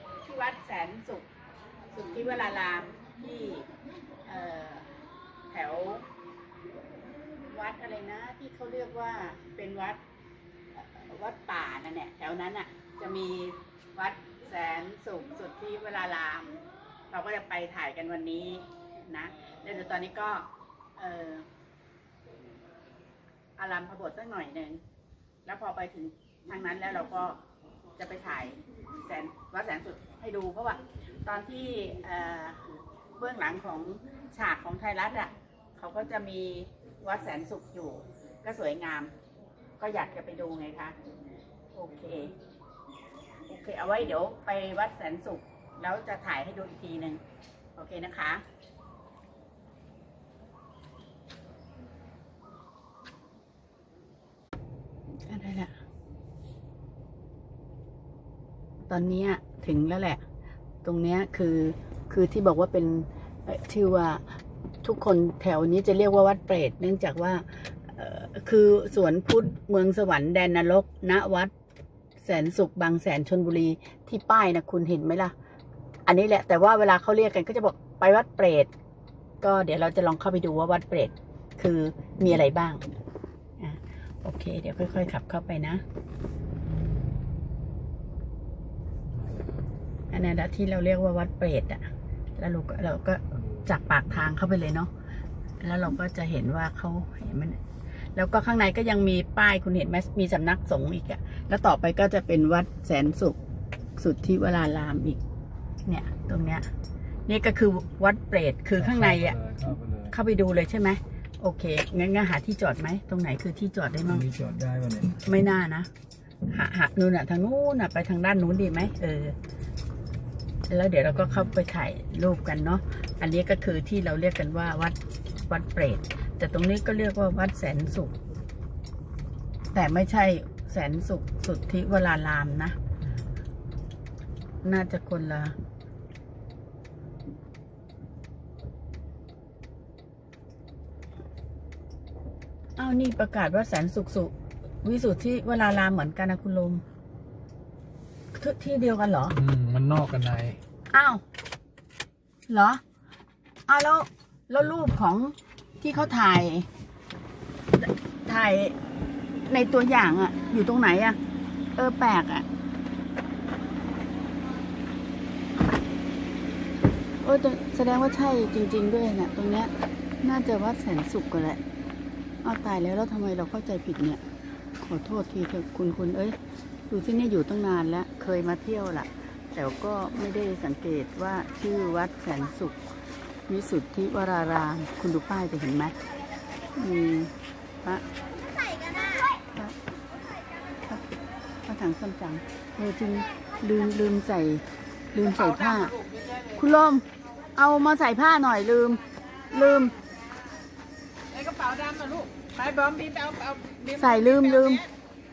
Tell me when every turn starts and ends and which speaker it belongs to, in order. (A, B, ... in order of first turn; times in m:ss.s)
0:00.2-0:01.3 A
0:01.9-0:03.7 A
0:04.2-0:04.9 A
0:05.5-0:06.0 A
0:07.5-0:10.0 A
0:10.7-0:16.6 A
0:17.1-0:21.4 A
0:23.6-0:24.8 A
0:25.4-0:27.4 A
0:28.0-0:39.1 A
0:39.8-0:41.0 A
0:41.7-0:42.3 A
0:43.5-0:47.2 A
0:47.7-0:48.4 A
0:55.2-0:55.8 A
0:58.9-1:00.2 A
1:00.8-1:04.2 A
1:04.8-1:11.5 A
1:12.2-1:15.3 A
1:16.0-1:18.7 A
1:19.4-1:22.9 A
1:23.6-1:25.8 A
1:29.2-1:29.5 B
1:30.1-1:34.9 A
1:35.6-1:37.6 A
1:38.1-1:43.4 A
1:44.0-1:45.2 A
1:45.8-1:46.7 A
1:47.3-1:49.4 A
1:48.8-1:50.1 B
1:50.1-1:54.3 A
1:54.2-1:55.2 B
1:55.2-1:55.9 A
1:56.5-1:59.4 A
2:00.7-2:08.1 A
2:09.7-2:12.8 A
2:14.6-2:15.6 A
2:22.8-2:26.8 A
2:28.3-2:29.4 A
2:29.3-2:30.6 B
2:30.9-2:31.2 A
2:32.5-2:32.8 A
2:33.7-2:36.7 A
2:37.8-2:38.8 A
2:39.4-2:41.2 A
2:41.8-2:42.5 A
2:47.2-2:51.6 A
2:52.4-2:54.2 A
2:54.8-2:56.4 A
2:56.9-3:02.8 A
3:03.5-3:05.9 A
3:06.7-3:08.0 A
3:09.0-3:09.8 A
3:11.6-3:20.0 A
3:21.3-3:23.8 C
3:23.8-3:24.9 A